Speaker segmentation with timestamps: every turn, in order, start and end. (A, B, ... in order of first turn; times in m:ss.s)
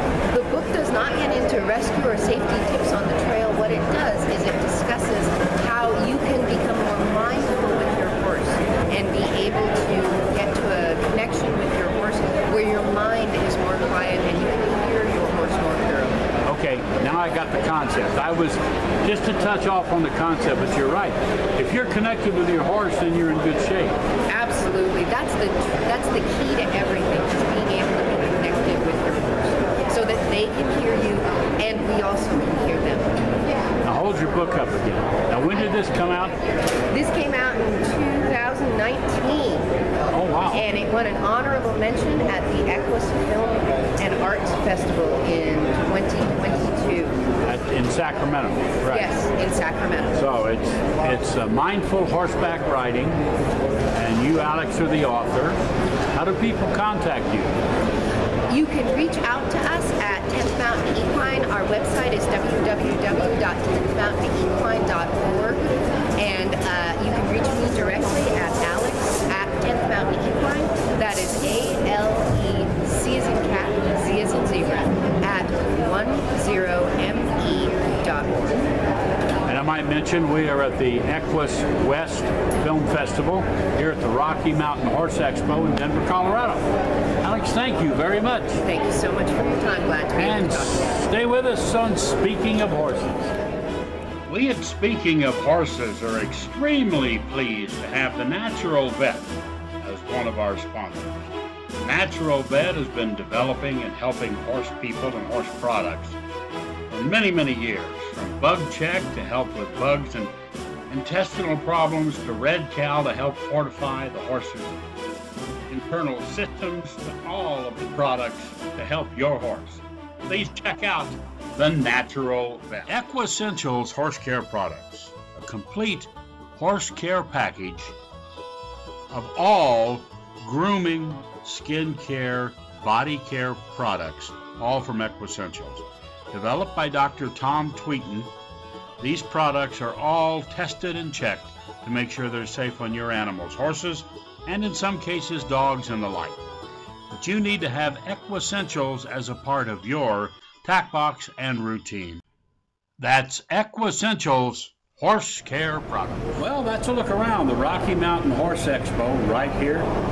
0:00.3-0:16.2 A
0:16.4-0:24.0 B
0:24.3-0:33.1 A
0:33.8-0:36.4 B
0:36.9-0:39.7 A
0:40.1-0:40.6 B
0:40.5-0:47.2 A
0:47.4-0:49.1 B
0:48.9-0:50.2 A
0:50.1-0:53.2 B
0:53.9-0:55.6 B
0:56.2-0:57.6 B
0:58.5-1:18.7 A
1:19.4-1:26.7 B
1:27.2-1:28.6 B
1:28.6-1:31.0 A
1:30.2-1:33.3 B
1:34.3-1:41.2 B
1:41.8-1:46.2 B
1:46.9-1:50.3 B
1:50.9-1:54.8 B
1:55.7-2:08.0 B
2:09.1-2:18.3 B
2:19.0-2:26.4 B
2:27.1-2:32.2 B
2:33.0-2:39.9 B